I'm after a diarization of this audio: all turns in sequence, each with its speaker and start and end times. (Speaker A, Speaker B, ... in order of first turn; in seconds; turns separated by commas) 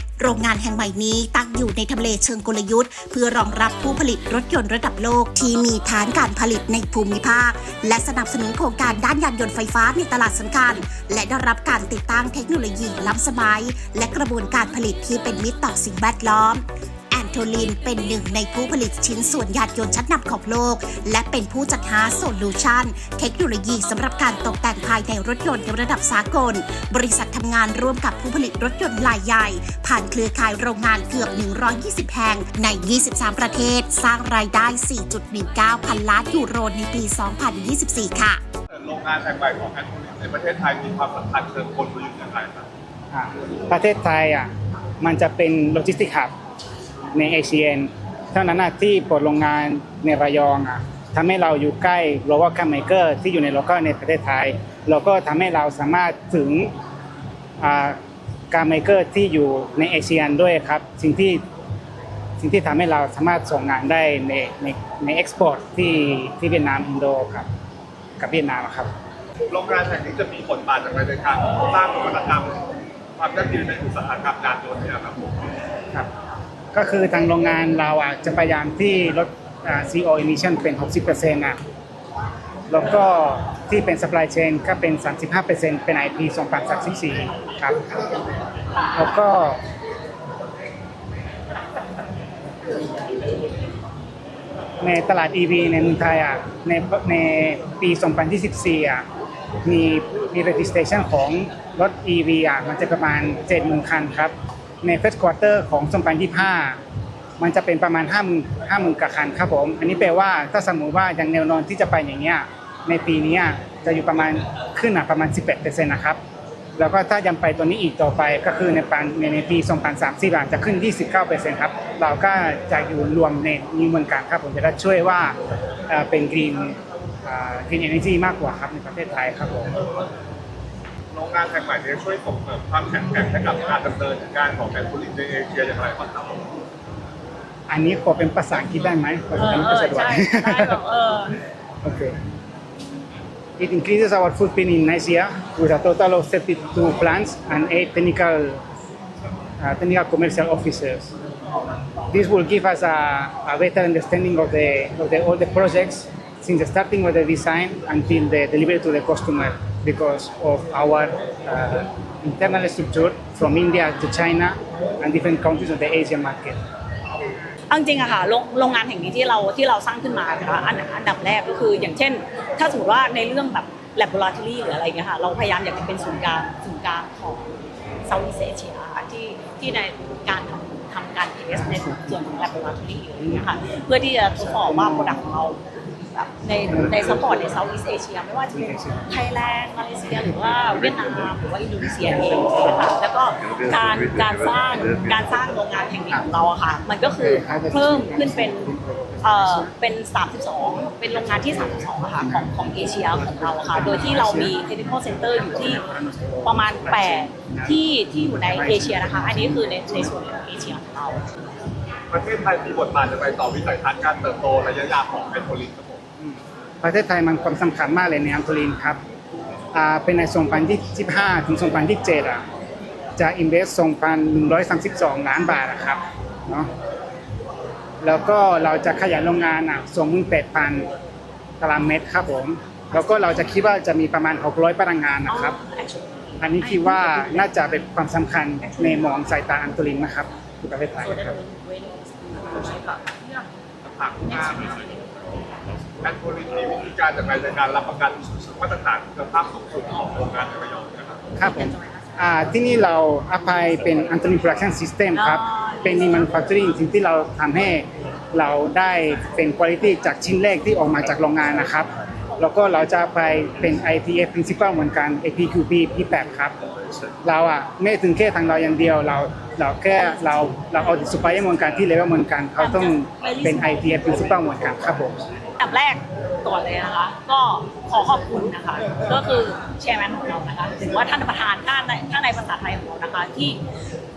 Speaker A: 0.2-38.4, Speaker B: 38.7-42.7, Speaker C: 43.1-44.5, Speaker C: 45.0-46.3, Speaker C: 47.1-56.7, Speaker C: 57.6-58.0, Speaker C: 58.5-61.4, Speaker C: 62.4-67.5, Speaker C: 68.2-68.9, Speaker B: 69.5-72.6, Speaker B: 73.2-75.3, Speaker C: 76.7-81.6, Speaker C: 82.7-88.0, Speaker C: 88.9-89.6, Speaker C: 94.8-99.0, Speaker C: 99.6-106.8, Speaker C: 107.4-116.2, Speaker C: 116.8-125.3, Speaker C: 125.9-129.7, Speaker B: 131.1-136.4, Speaker C: 137.7-140.8, Speaker D: 139.3-141.3, Speaker C: 141.8-142.1, Speaker C: 143.6-148.6, Speaker C: 149.6-151.1, Speaker C: 152.1-166.6, Speaker D: 167.7-205.8, Speaker C: 181.6-182.2, Speaker C: 184.4-185.2, Speaker C: 188.5-189.1, Speaker C: 197.2-199.7, Speaker C: 203.2-204.5, Speaker C: 205.6-210.0, Speaker D: 206.4-211.2, Speaker B: 212.1-216.0, Speaker C: 216.2-219.0, Speaker C: 219.7-222.4, Speaker C: 223.2-226.7, Speaker C: 228.0-230.9, Speaker C: 231.6-235.6, Speaker D: 232.9-233.6, Speaker D: 235.3-237.8, Speaker C: 236.4-241.4, Speaker D: 238.6-239.1, Speaker D: 241.1-243.5, Speaker B: 243.8-244.8, Speaker D: 244.3-244.8, Speaker B: 246.0-251.2, Speaker C: 251.4-266.5, Speaker D: 251.5-251.8, Speaker D: 255.1-256.3, Speaker C: 267.2-275.2, Speaker D: 270.0-271.5, Speaker D: 272.6-274.2, Speaker D: 275.6-283.6